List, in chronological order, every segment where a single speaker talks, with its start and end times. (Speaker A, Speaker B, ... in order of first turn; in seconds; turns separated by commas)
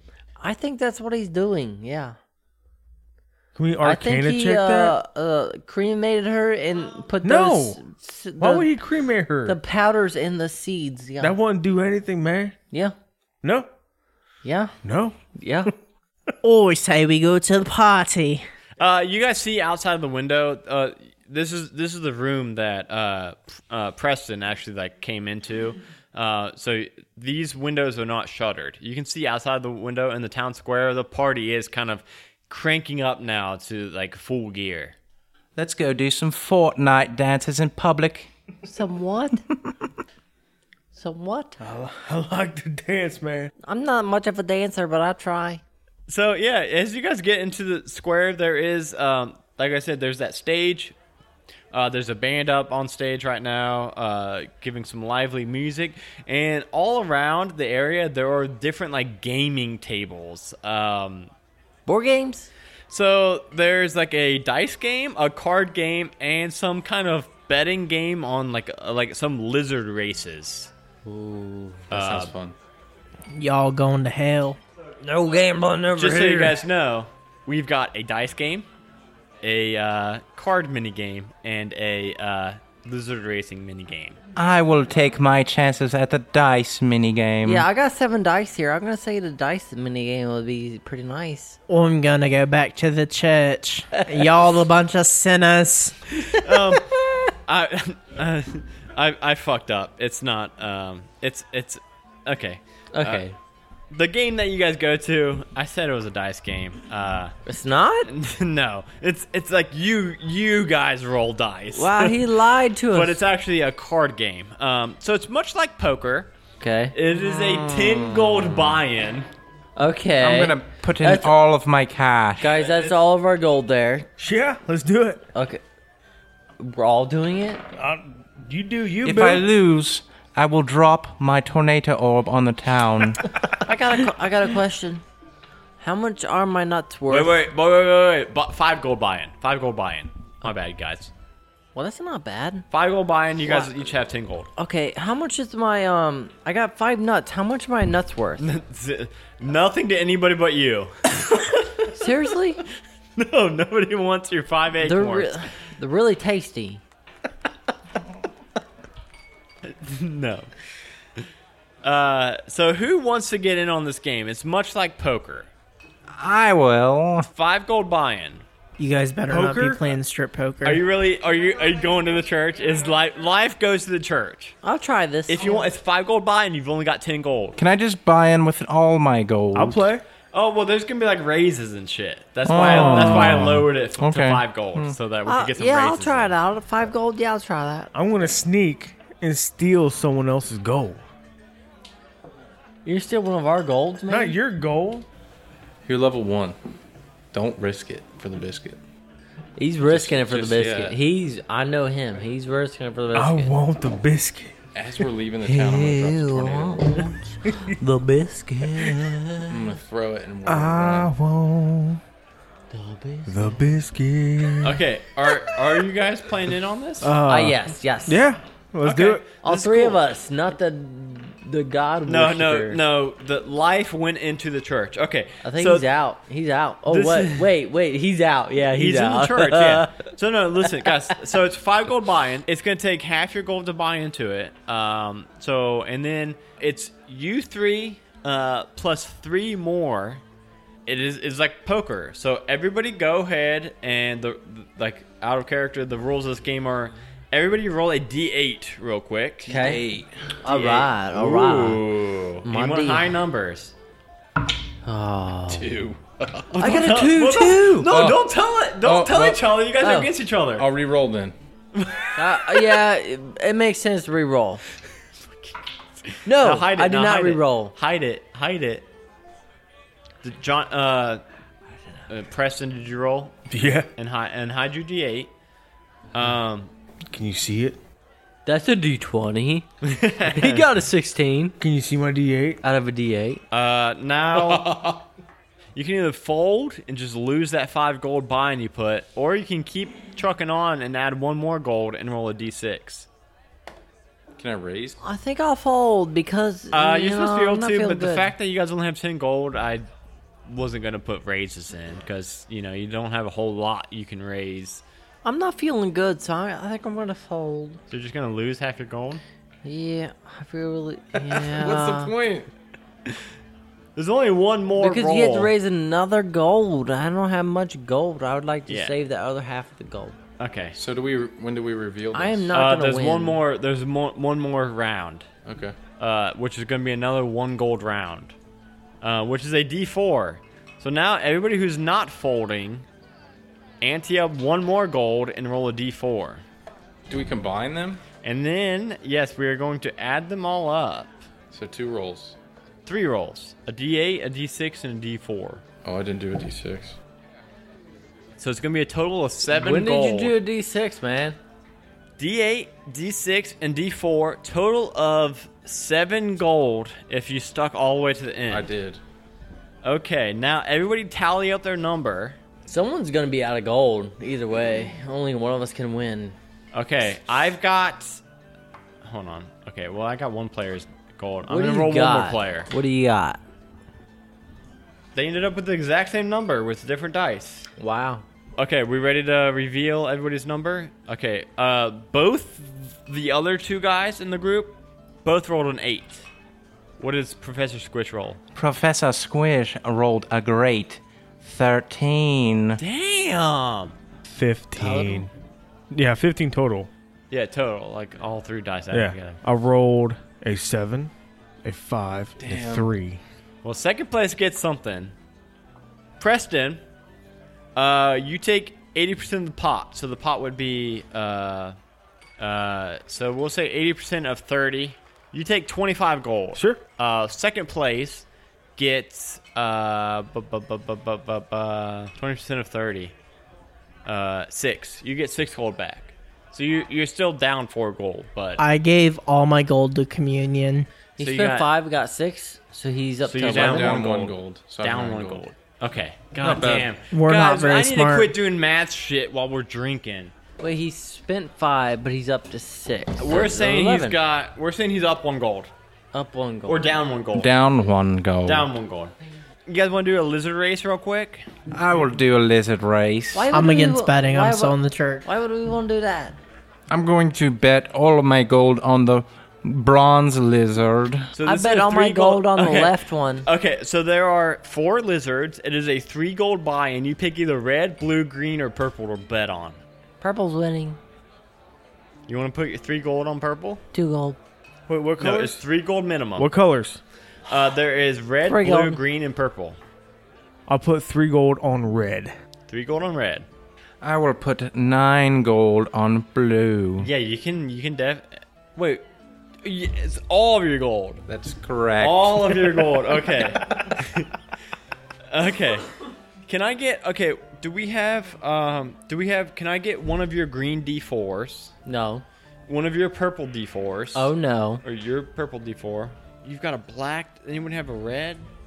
Speaker A: 0.4-2.2, Speaker B: 3.6-5.0, Speaker A: 3.8-8.7, Speaker B: 7.2-7.8, Speaker B: 8.4-9.6, Speaker A: 9.4-11.4, Speaker B: 11.2-12.6, Speaker B: 13.4-13.7, Speaker A: 14.4-14.8, Speaker B: 14.8-15.2, Speaker A: 15.4-15.7, Speaker C: 16.4-18.4, Speaker D: 18.8-35.0, Speaker E: 35.6-38.3, Speaker A: 38.6-39.5, Speaker A: 41.0-41.6, Speaker B: 41.6-43.5, Speaker A: 43.6-45.6, Speaker D: 46.1-51.0, Speaker D: 51.7-61.3, Speaker A: 61.9-62.5, Speaker D: 62.9-70.7, Speaker A: 71.0-71.9, Speaker D: 71.9-72.3, Speaker F: 71.9-72.6, Speaker C: 73.4-74.6, Speaker A: 75.0-76.6, Speaker D: 76.0-78.7, Speaker D: 79.4-84.2, Speaker E: 84.4-87.7, Speaker A: 87.5-91.6, Speaker C: 91.7-96.1, Speaker D: 96.3-103.2, Speaker A: 102.9-103.4, Speaker D: 103.9-107.3, Speaker A: 107.5-108.1, Speaker D: 108.1-112.2, Speaker A: 111.7-113.2, Speaker D: 112.9-116.3, Speaker A: 116.6-117.0, Speaker D: 116.9-119.3, Speaker A: 119.8-121.3, Speaker E: 120.2-122.5, Speaker A: 122.4-124.1, Speaker D: 122.4-123.0, Speaker B: 124.2-125.2, Speaker A: 125.3-125.6, Speaker A: 126.6-127.6, Speaker B: 127.8-129.4, Speaker E: 129.0-133.2, Speaker A: 133.5-135.0, Speaker A: 135.8-137.5, Speaker D: 137.1-141.1, Speaker A: 141.8-142.7, Speaker D: 142.7-144.5, Speaker A: 144.6-148.5, Speaker D: 148.4-152.1, Speaker A: 151.9-152.6, Speaker D: 153.2-155.4, Speaker A: 154.8-156.8, Speaker D: 159.7-160.5, Speaker D: 161.8-165.5, Speaker E: 166.1-167.3, Speaker D: 167.2-168.4, Speaker C: 168.8-170.8, Speaker B: 169.3-170.0, Speaker D: 170.6-174.6, Speaker A: 174.6-175.6, Speaker D: 175.3-177.6, Speaker E: 177.6-179.9, Speaker B: 179.5-180.0, Speaker D: 180.3-186.3, Speaker E: 182.5-185.0, Speaker A: 185.2-187.9, Speaker B: 187.9-191.0, Speaker A: 192.8-194.4, Speaker B: 194.1-195.1, Speaker F: 195.9-196.6, Speaker F: 197.3-198.8, Speaker A: 199.6-203.5, Speaker F: 199.8-201.0, Speaker B: 203.1-204.6, Speaker F: 204.7-207.3, Speaker A: 205.4-209.6, Speaker F: 209.5-211.1, Speaker B: 210.5-212.0, Speaker A: 212.7-213.6, Speaker B: 213.3-214.8, Speaker D: 214.6-217.2, Speaker B: 217.0-219.2, Speaker A: 217.3-218.2, Speaker D: 218.8-220.0, Speaker A: 219.4-222.8, Speaker D: 222.1-225.9, Speaker A: 225.4-230.1, Speaker D: 226.9-227.5, Speaker D: 228.7-240.2, Speaker D: 240.9-249.5, Speaker A: 249.4-249.8, Speaker F: 249.5-250.1, Speaker E: 249.6-250.0, Speaker A: 250.4-251.8, Speaker D: 250.4-253.7, Speaker A: 252.4-253.1, Speaker A: 254.8-255.7, Speaker F: 255.5-257.0, Speaker D: 256.5-260.7, Speaker A: 256.6-257.9, Speaker F: 257.9-258.3, Speaker F: 258.8-259.5, Speaker A: 259.8-260.1, Speaker F: 260.6-261.4, Speaker D: 261.8-262.6, Speaker A: 262.2-264.6, Speaker D: 265.3-265.6, Speaker D: 266.1-268.9, Speaker A: 266.2-267.7, Speaker D: 270.2-271.2, Speaker D: 272.1-273.4, Speaker B: 273.5-273.9, Speaker D: 274.0-275.3, Speaker D: 276.1-276.7, Speaker B: 277.1-277.8, Speaker A: 278.5-279.7, Speaker D: 279.8-280.7, Speaker A: 280.2-281.6, Speaker B: 281.6-282.6, Speaker A: 282.6-283.4, Speaker D: 283.5-284.8, Speaker F: 284.4-285.0, Speaker D: 285.8-293.1, Speaker F: 294.4-295.0, Speaker A: 295.0-298.3, Speaker D: 296.7-299.9, Speaker D: 300.5-304.8, Speaker A: 305.2-307.8, Speaker D: 307.9-309.2, Speaker A: 309.6-312.1, Speaker F: 311.2-312.5, Speaker D: 314.0-315.5, Speaker A: 314.8-320.2, Speaker D: 318.7-318.9, Speaker D: 320.4-320.8, Speaker F: 320.8-322.6, Speaker A: 322.1-323.4, Speaker D: 322.5-325.3, Speaker F: 325.5-325.8, Speaker D: 326.0-328.3, Speaker D: 329.0-332.9, Speaker D: 333.8-336.4, Speaker F: 337.1-338.0, Speaker D: 338.2-341.2, Speaker F: 341.5-342.4, Speaker D: 342.9-345.6, Speaker F: 345.8-347.0, Speaker D: 348.4-350.3, Speaker A: 349.5-351.4, Speaker D: 352.2-358.7, Speaker F: 358.5-359.0, Speaker D: 359.8-362.4, Speaker A: 362.7-366.4, Speaker D: 366.7-368.2, Speaker D: 369.0-372.7, Speaker A: 371.5-373.4, Speaker D: 375.1-377.7, Speaker A: 377.8-378.2, Speaker D: 378.6-386.3, Speaker D: 387.0-388.4, Speaker E: 388.6-392.8, Speaker D: 392.8-393.9, Speaker B: 394.3-395.3, Speaker A: 394.8-395.3, Speaker B: 395.9-396.9, Speaker D: 397.3-399.4, Speaker B: 398.9-401.1, Speaker B: 401.6-403.2, Speaker F: 402.4-402.9, Speaker D: 403.6-405.1, Speaker D: 406.2-406.8, Speaker D: 407.8-411.8, Speaker D: 412.4-418.3, Speaker B: 416.5-416.8, Speaker D: 418.8-423.1, Speaker D: 424.1-428.6, Speaker C: 428.6-430.9, Speaker A: 431.2-434.0, Speaker D: 431.2-431.7, Speaker D: 433.2-440.3, Speaker F: 433.4-435.5, Speaker F: 436.4-436.9, Speaker C: 437.1-438.3, Speaker A: 440.6-444.2, Speaker D: 443.2-445.7, Speaker A: 446.1-446.9, Speaker D: 446.7-447.5, Speaker E: 447.3-448.7, Speaker D: 448.4-449.1, Speaker D: 449.7-451.5, Speaker E: 451.7-453.5, Speaker A: 453.3-456.4, Speaker C: 453.5-455.3, Speaker E: 456.9-461.3, Speaker D: 461.4-469.8, Speaker A: 461.4-463.5, Speaker A: 470.2-471.0, Speaker D: 472.3-473.8, Speaker A: 473.9-474.4, Speaker B: 474.9-475.6, Speaker D: 475.2-476.5, Speaker B: 476.4-477.0, Speaker D: 477.5-479.8, Speaker A: 478.4-479.0, Speaker B: 480.7-482.3, Speaker D: 482.7-483.5, Speaker E: 484.0-487.1, Speaker D: 487.0-489.1, Speaker D: 489.6-491.2, Speaker E: 491.3-492.8, Speaker D: 492.0-494.4, Speaker D: 495.3-495.9, Speaker D: 496.5-501.7, Speaker A: 501.9-502.2, Speaker D: 502.7-504.3, Speaker A: 504.1-504.8, Speaker D: 504.8-508.5